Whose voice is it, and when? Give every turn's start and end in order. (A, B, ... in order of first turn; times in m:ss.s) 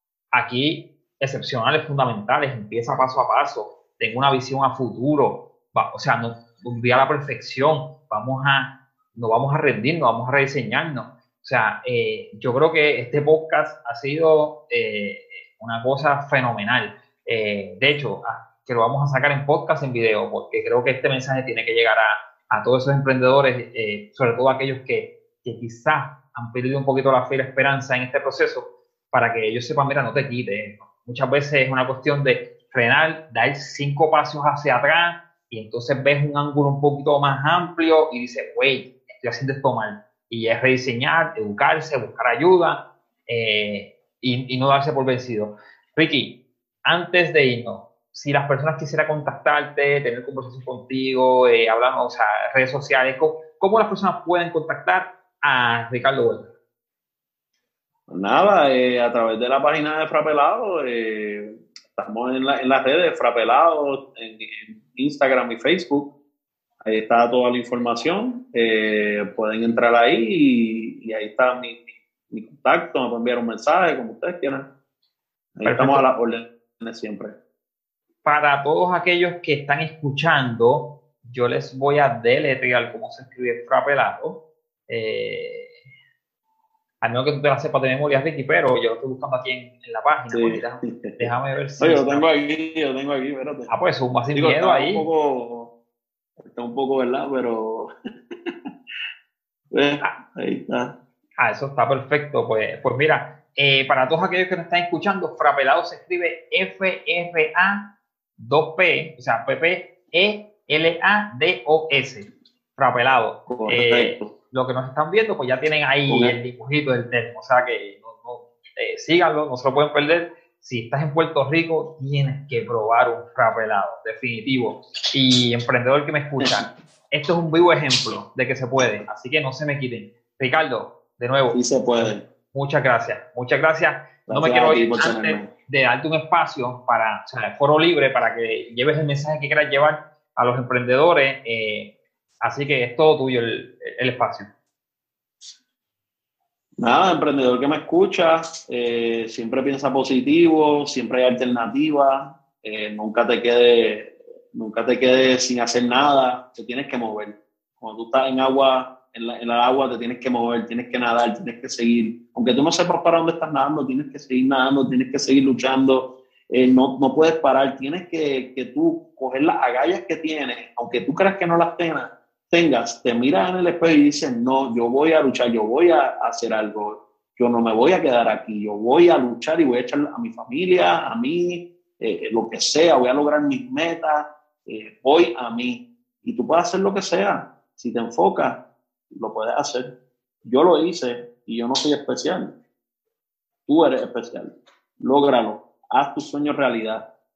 0:00.3-0:56.5 A
0:58.1-1:06.1 B
1:06.8-1:14.7 B
1:15.6-1:17.4 B
1:15.6-1:16.0 A
1:18.2-1:25.7 A
1:27.0-1:32.3 A
1:30.3-1:33.7 B
1:33.7-1:35.1 A
1:34.3-1:35.7 B
1:36.4-1:37.9 B
1:39.7-1:40.9 B
1:41.4-2:24.5 A
1:53.5-1:54.3 B
1:56.1-1:56.3 B
2:08.8-2:09.0 B
2:11.5-2:12.2 B
2:14.3-2:15.5 B
2:26.8-3:08.6 B
3:09.1-3:09.9 B
3:10.4-3:12.5 B
3:13.7-3:17.0 B